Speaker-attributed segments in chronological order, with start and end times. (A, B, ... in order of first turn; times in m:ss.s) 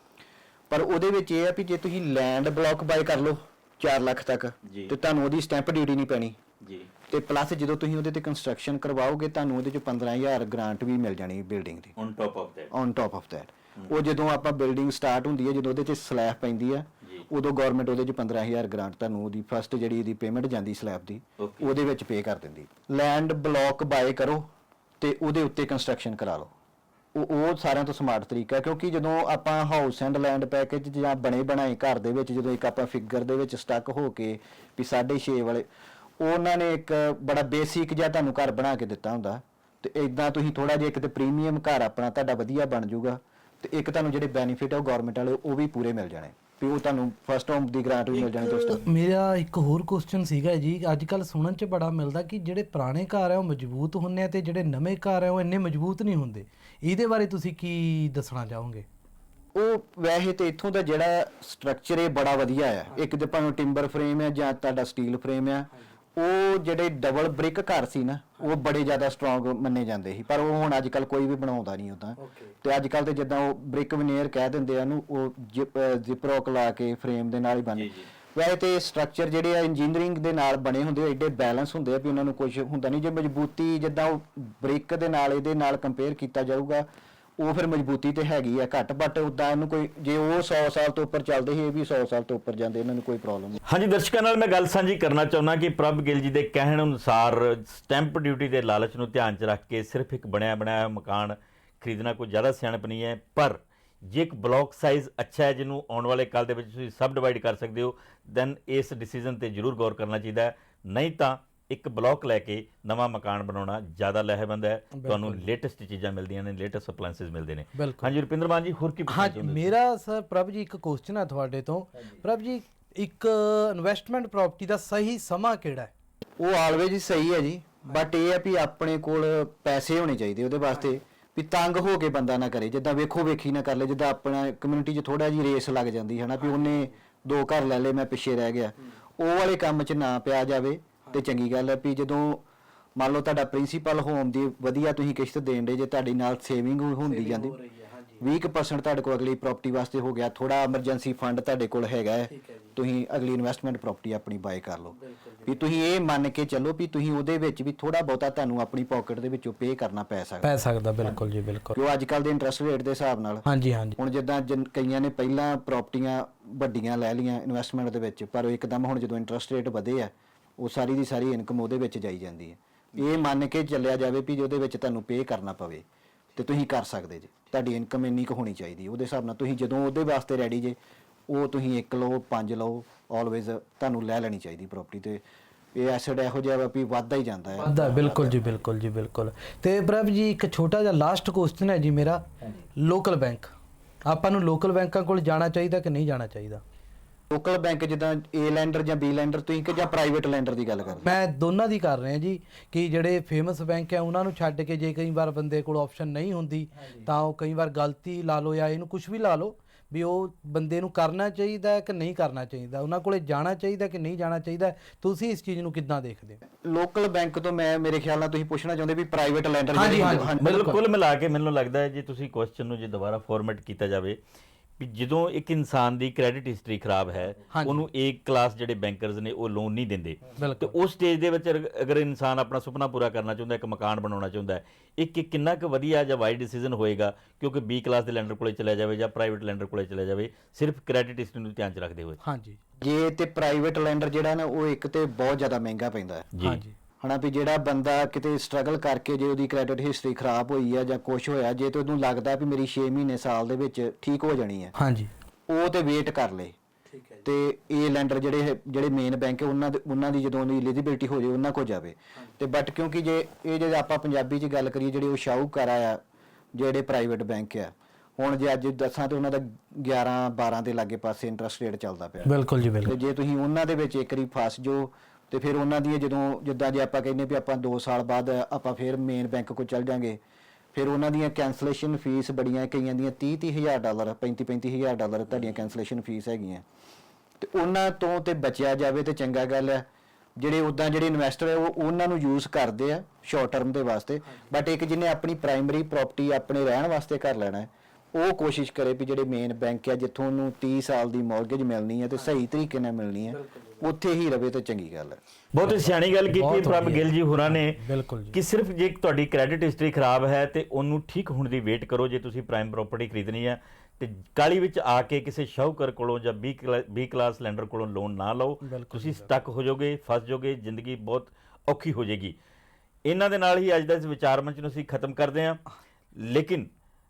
0:00.7-0:06.4 A
0:04.6-0:04.9 B
0:06.6-0:06.9 B
0:07.1-0:11.9 A
0:12.0-0:12.7 B
0:12.7-0:24.5 A
0:21.4-0:21.7 B
0:25.0-0:26.5 A
0:27.2-0:35.7 A
0:36.2-0:48.8 A
0:48.1-0:58.9 C
0:59.6-1:26.9 A
1:12.2-1:12.6 C
1:17.7-1:18.1 B
1:27.4-1:33.6 A
1:33.7-1:59.7 B
1:54.9-1:55.5 C
1:57.7-1:58.2 C
1:59.1-2:05.9 C
2:06.4-2:22.4 A
2:16.4-2:17.0 C
2:23.0-2:27.6 A
2:27.0-2:28.3 C
2:28.2-2:40.5 A
2:32.3-2:32.7 C
2:35.0-2:35.7 C
2:40.4-2:41.8 C
2:41.8-2:43.4 A
2:43.5-2:44.0 C
2:44.0-2:55.8 A
2:53.0-2:53.2 B
2:56.4-3:00.8 A
3:01.3-3:05.2 A
3:05.8-3:08.4 A
3:07.6-3:12.2 C
3:12.8-3:13.5 C
3:14.1-3:16.6 C
3:17.3-3:21.1 A
3:21.0-3:36.4 C
3:26.8-3:27.1 A
3:36.6-3:40.6 A
3:39.7-3:40.8 C
3:40.2-3:44.2 B
3:44.8-4:02.2 B
3:47.5-3:47.9 C
3:50.4-3:50.8 C
4:02.2-4:02.6 C
4:02.8-4:06.3 A
4:06.3-4:06.6 B
4:06.4-4:06.8 C
4:07.0-4:14.7 A
4:14.8-4:15.1 C
4:15.5-4:16.5 A
4:16.9-4:17.3 C
4:17.2-4:26.0 A
4:26.6-4:40.2 A
4:32.2-4:32.9 C
4:40.7-4:46.6 A
4:45.3-4:45.7 B
4:47.4-4:49.9 A
4:50.4-5:05.2 A
4:54.3-4:54.5 C
5:03.3-5:03.9 C
5:05.5-5:07.8 B
5:05.6-5:08.4 C
5:08.3-5:22.4 B
5:18.6-5:19.3 C
5:23.1-5:25.6 B
5:26.2-5:26.7 B